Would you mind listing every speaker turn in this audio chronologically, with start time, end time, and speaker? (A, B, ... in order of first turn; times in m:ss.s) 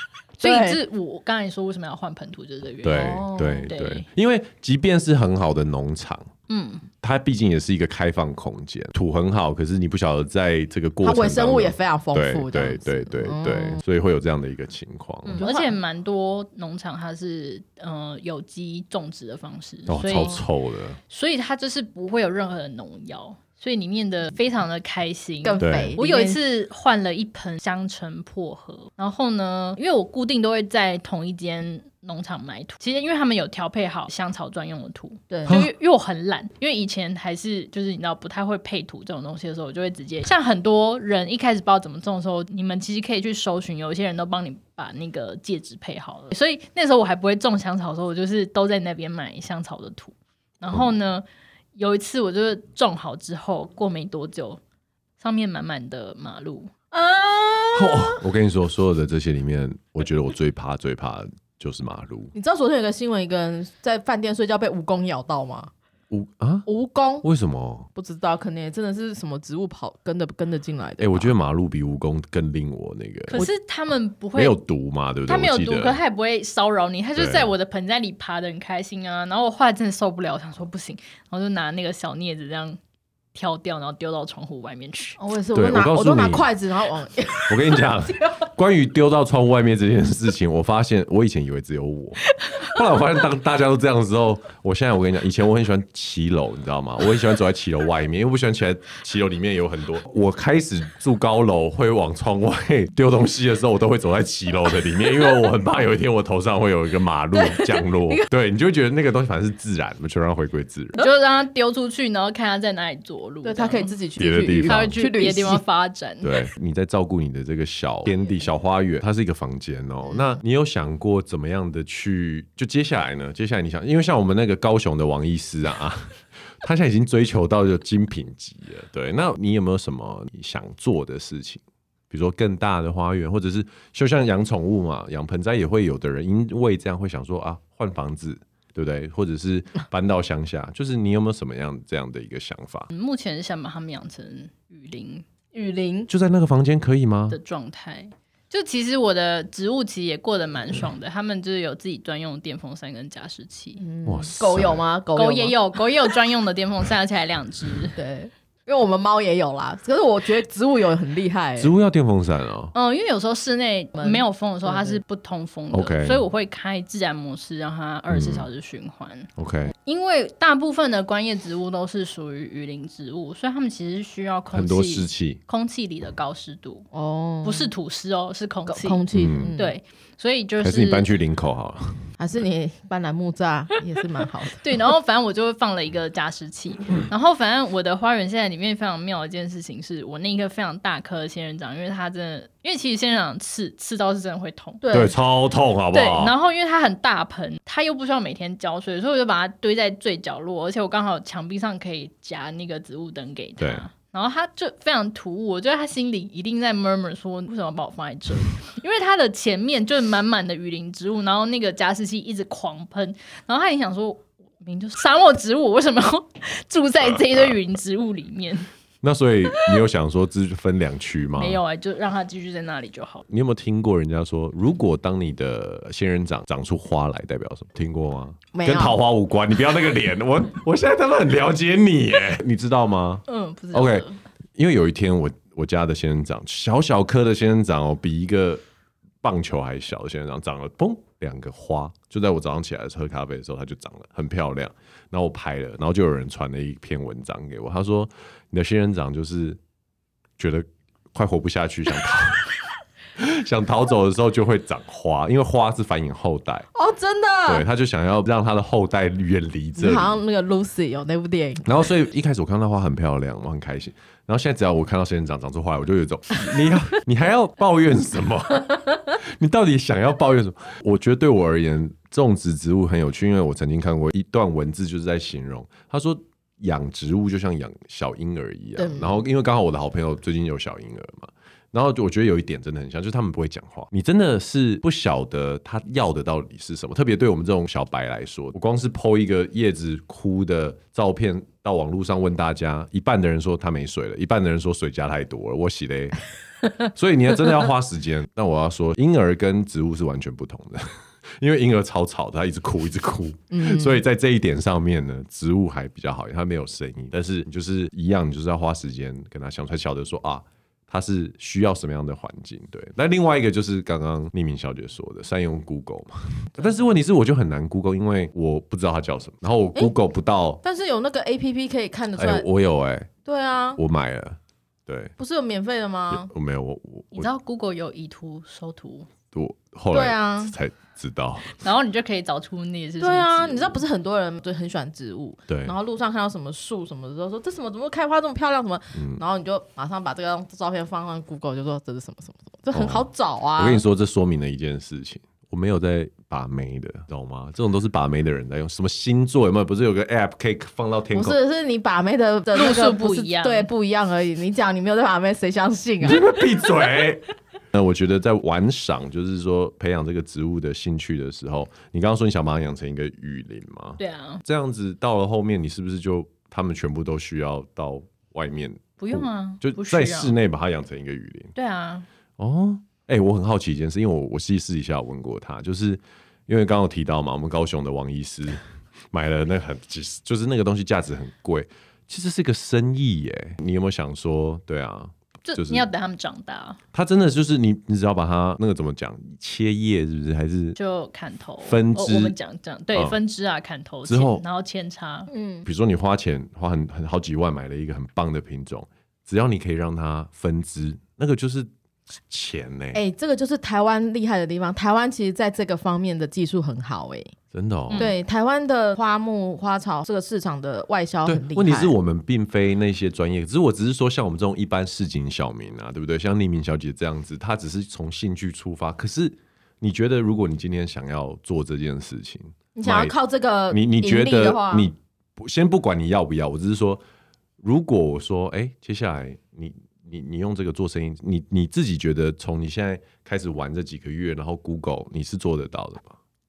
0:00.4-0:00.8 A
0:00.4-0:04.0 B
0:02.8-0:06.3 C
0:02.9-0:03.7 A
0:06.5-0:06.8 B
0:07.0-0:15.4 C
0:11.0-0:13.8 A
0:15.2-0:20.4 B
0:15.3-0:15.8 A
0:19.9-0:21.0 C
0:21.1-0:54.6 B
0:25.4-0:26.4 A
0:25.6-0:26.0 C
0:35.3-0:35.6 A
0:55.2-0:56.7 B
0:56.9-0:58.2 A
0:57.7-1:02.3 C
1:02.3-1:05.7 A
1:06.1-1:06.7 C
1:06.7-1:07.2 A
1:07.2-1:07.9 C
1:07.9-1:11.3 A
1:11.0-1:13.4 C
1:13.3-1:14.6 B
1:14.3-1:16.0 C
1:15.2-1:22.8 B
1:17.2-1:17.5 C
1:23.3-1:25.2 B
1:25.2-1:28.4 A
1:25.5-1:26.5 C
1:27.5-1:51.0 C
1:47.3-1:48.2 A
1:51.0-1:53.9 B
1:53.4-1:55.6 A
1:54.2-1:54.9 C
1:54.6-1:56.4 B
1:56.2-2:22.9 C
2:00.0-2:00.4 A
2:22.9-2:25.2 B
2:25.5-2:26.1 A
2:26.1-2:27.4 C
2:27.3-2:33.8 B
2:33.8-2:35.6 A
2:34.0-2:34.8 C
2:35.1-2:38.0 B
2:38.0-2:41.7 A
2:41.6-2:42.7 C
2:42.7-2:56.9 B
2:44.0-2:45.0 A
2:45.7-2:46.2 C
2:48.1-2:48.5 C
2:49.4-2:49.7 C
2:54.5-2:55.4 C
2:56.9-2:57.7 A
2:57.4-2:59.0 B
2:58.7-2:59.8 A
2:59.1-2:59.5 C
2:59.6-3:01.1 B
3:00.6-3:02.0 C
3:02.2-3:04.6 A
3:04.6-3:14.8 B
3:14.8-3:15.1 A
3:14.9-3:16.3 C
3:15.9-3:38.7 B
3:23.6-3:23.8 C
3:39.0-3:41.6 C
3:41.4-3:43.2 B
3:43.2-3:58.6 C
3:48.5-3:49.0 A
3:53.3-3:54.2 B
3:59.2-4:09.6 C
4:10.4-4:12.5 C
4:13.2-4:16.7 C
4:16.7-4:17.6 A
4:17.4-4:20.2 C
4:19.8-4:21.7 A
4:21.6-4:56.2 C
4:38.8-4:39.2 A
4:56.8-5:20.6 C
5:03.5-5:04.0 A
5:20.6-5:22.4 A
5:22.1-5:23.1 C
5:23.2-5:23.8 A
5:23.8-5:25.1 C
5:25.2-5:26.3 A
5:26.1-5:27.3 C
5:27.1-5:29.1 B
5:29.3-5:31.5 C
5:29.9-5:30.5 A
5:31.6-5:33.8 B
5:33.0-5:43.8 A
5:35.5-5:35.8 C
5:39.0-5:39.2 C
5:42.7-5:51.4 C
5:51.1-5:56.3 A
5:52.5-5:53.7 B
5:56.0-6:11.5 C
6:04.0-6:04.4 B
6:09.0-6:10.4 B
6:11.5-6:12.1 B
6:12.4-6:18.6 C
6:19.1-6:25.9 C
6:25.4-6:26.8 B
6:26.9-6:30.8 C
6:30.8-6:35.3 B
6:31.6-6:32.4 C
6:32.9-6:33.2 C
6:34.0-6:34.4 C
6:35.3-6:35.6 A
6:35.6-6:41.7 C
6:42.3-6:43.0 C
6:42.9-6:47.3 A
6:47.5-6:48.1 C
6:47.9-6:48.1 B
6:48.0-6:51.9 A
6:51.2-7:03.1 C
7:02.8-7:04.9 A
7:03.7-7:07.0 C
7:07.6-7:16.2 C